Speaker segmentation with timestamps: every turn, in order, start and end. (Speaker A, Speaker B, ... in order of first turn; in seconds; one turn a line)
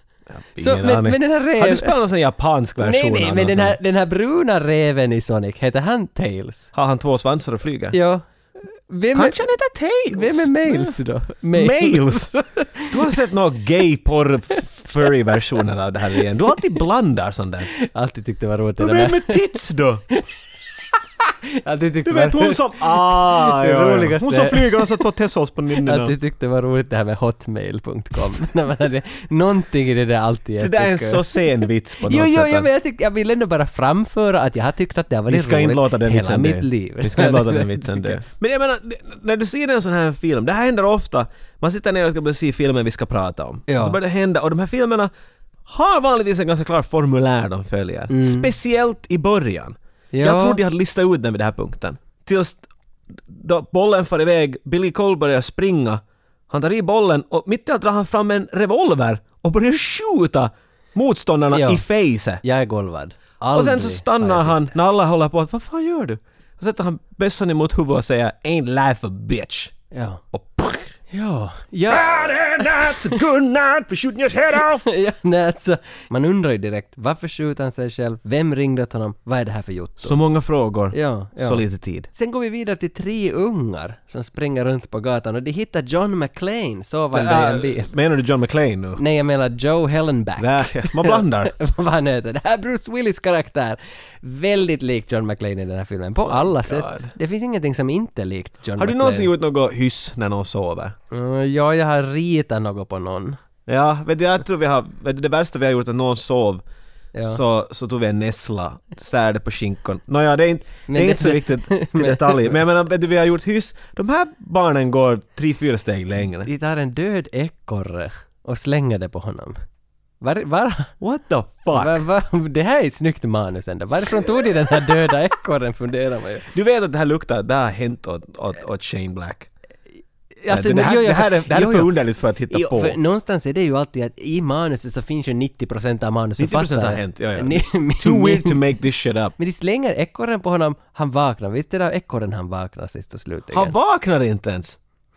Speaker A: 0.3-3.8
Speaker B: 0.6-1.9
Speaker B: 2.8-6.7
Speaker A: 6.7-8.0
Speaker B: 7.9-9.4
Speaker A: 9.1-11.0
Speaker B: 10.1-13.1
Speaker A: 11.5-12.3
Speaker A: 12.9-17.7
Speaker B: 17.7-19.5
Speaker A: 18.8-20.0
Speaker B: 20.1-20.4
Speaker B: 21.5-25.0
Speaker A: 22.0-26.1
Speaker B: 25.8-38.2
Speaker A: 30.6-32.7
Speaker A: 35.3-45.1
Speaker B: 43.7-44.0
Speaker A: 45.6-62.4
Speaker B: 48.1-48.5
Speaker B: 50.1-50.6
Speaker B: 61.5-61.8
Speaker B: 62.4-64.7
Speaker A: 63.5-69.7
Speaker B: 69.9-70.2
Speaker A: 70.3-71.0
Speaker B: 71.1-72.9
Speaker A: 71.9-74.8
Speaker B: 74.5-80.2
Speaker A: 80.0-82.1
Speaker B: 80.9-87.9
Speaker A: 87.1-89.0
Speaker B: 89.0-99.3
Speaker A: 90.4-91.5
Speaker A: 96.2-97.1
Speaker A: 98.8-100.9
Speaker B: 101.1-103.4
Speaker A: 103.7-106.6
Speaker B: 107.1-107.4
Speaker A: 107.2-116.5
Speaker B: 110.9-112.6
Speaker B: 116.4-119.6
Speaker B: 120.2-120.9
Speaker A: 121.0-122.0
Speaker B: 121.7-126.5
Speaker A: 126.5-129.5
Speaker B: 130.4-131.9
Speaker A: 130.5-132.9
Speaker B: 132.5-138.6
Speaker A: 136.4-139.3
Speaker B: 139.4-143.7
Speaker A: 143.5-144.8